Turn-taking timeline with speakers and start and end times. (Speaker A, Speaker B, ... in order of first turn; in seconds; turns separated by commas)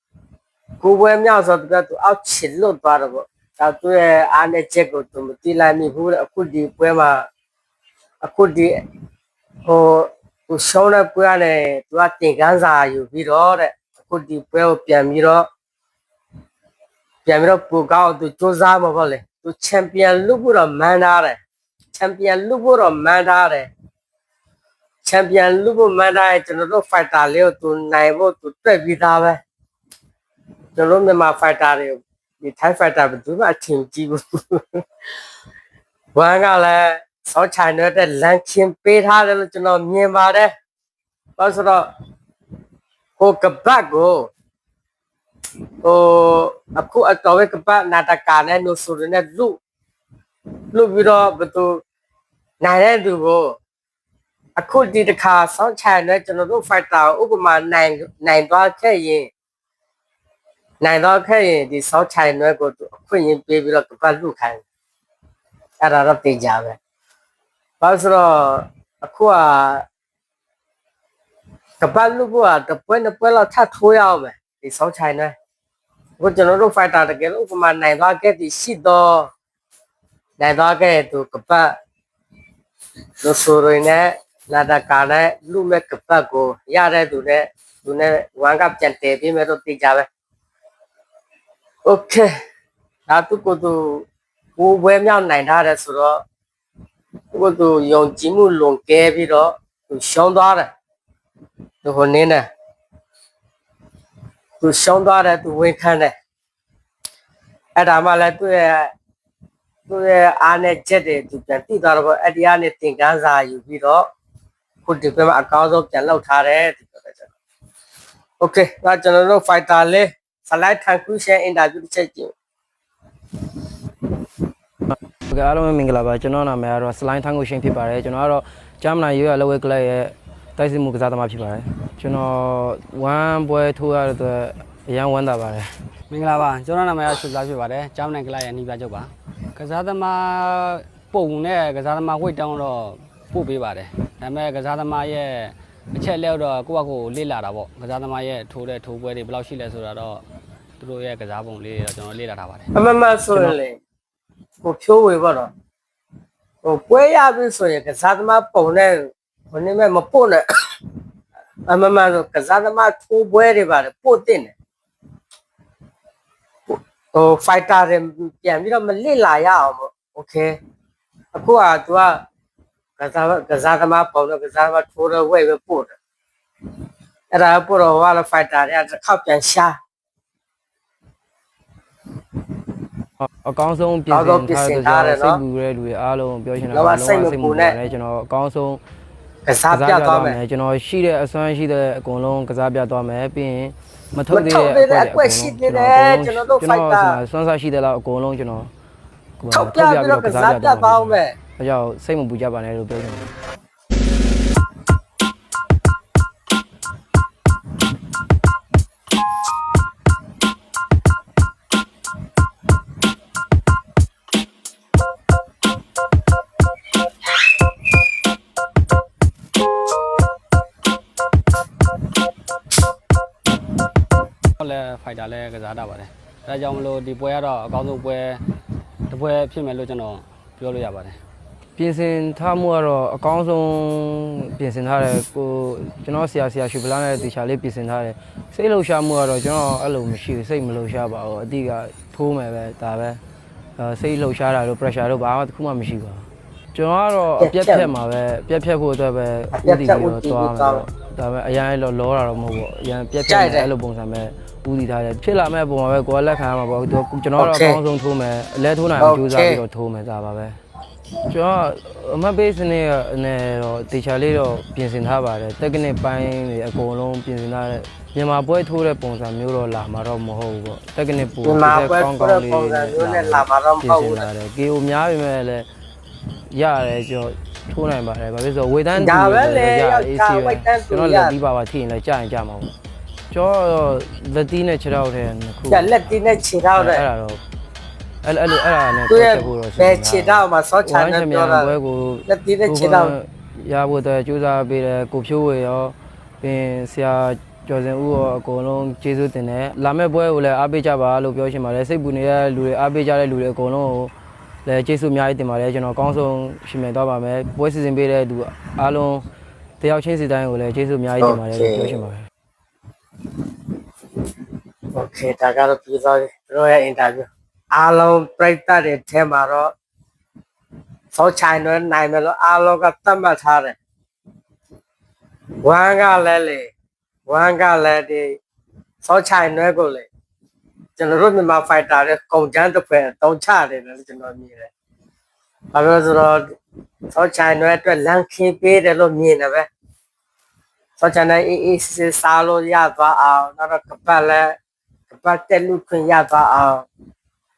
Speaker A: 0.8-7.2, Speaker A: 8.2-8.7, Speaker A: 9.7-15.5, Speaker A: 17.2-21.4, Speaker A: 21.9-23.7, Speaker A: 25.0-29.4, Speaker A: 30.8-34.6, Speaker A: 36.1-40.5, Speaker A: 41.4-41.9, Speaker A: 43.2-44.3, Speaker A: 45.8-49.6, Speaker A: 50.7-51.8, Speaker A: 52.6-53.5, Speaker A: 54.5-59.3, Speaker A: 60.8-64.6, Speaker A: 65.8-66.8, Speaker A: 67.8-69.8, Speaker A: 71.8-75.3, Speaker A: 76.2-79.3, Speaker A: 80.4-81.7, Speaker A: 83.2-90.1, Speaker A: 91.8-92.3, Speaker A: 93.1-94.0, Speaker A: 94.6-96.2, Speaker A: 97.3-100.7, Speaker A: 101.8-102.5, Speaker A: 104.6-106.1, Speaker A: 107.8-108.9, Speaker A: 109.9-114.0, Speaker A: 114.8-117.3, Speaker A: 118.4-122.3, Speaker B: 125.3-135.7, Speaker C: 136.1-150.2, Speaker C: 150.8-152.7, Speaker A: 152.7-153.8, Speaker A: 154.6-155.5, Speaker A: 156.6-160.4, Speaker A: 161.7-164.5, Speaker A: 166.7-170.5, Speaker A: 171.3-172.2, Speaker A: 173.0-175.9, Speaker A: 177.3-179.7, Speaker B: 183.2-188.8, Speaker A: 184.1-185.4, Speaker A: 186.7-187.8, Speaker A: 189.4-190.4, Speaker B: 189.7-198.7, Speaker A: 194.3-197.2, Speaker B: 199.4-203.3, Speaker A: 199.5-201.3, Speaker C: 224.6-228.4, Speaker C: 229.1-231.2, Speaker B: 231.8-243.2, Speaker B: 243.8-260.6, Speaker A: 247.4-247.9, Speaker A: 249.6-250.8, Speaker A: 253.3-253.7, Speaker A: 257.4-257.8, Speaker A: 259.0-259.6, Speaker B: 261.3-275.7, Speaker A: 271.4-274.3, Speaker B: 276.5-282.7, Speaker A: 278.9-281.4, Speaker B: 283.3-286.1, Speaker A: 285.7-287.0, Speaker B: 286.8-287.4, Speaker B: 288.2-304.1, Speaker A: 289.1-291.8, Speaker A: 292.3-293.1, Speaker B: 304.6-309.2, Speaker B: 309.8-312.2, Speaker A: 311.2-311.9, Speaker A: 314.9-319.7, Speaker A: 321.1-323.8, Speaker A: 325.6-326.7, Speaker A: 327.3-328.4, Speaker A: 329.0-330.1, Speaker A: 331.0-334.7, Speaker A: 335.7-336.5, Speaker A: 337.1-339.6, Speaker A: 341.0-344.6, Speaker A: 345.1-346.9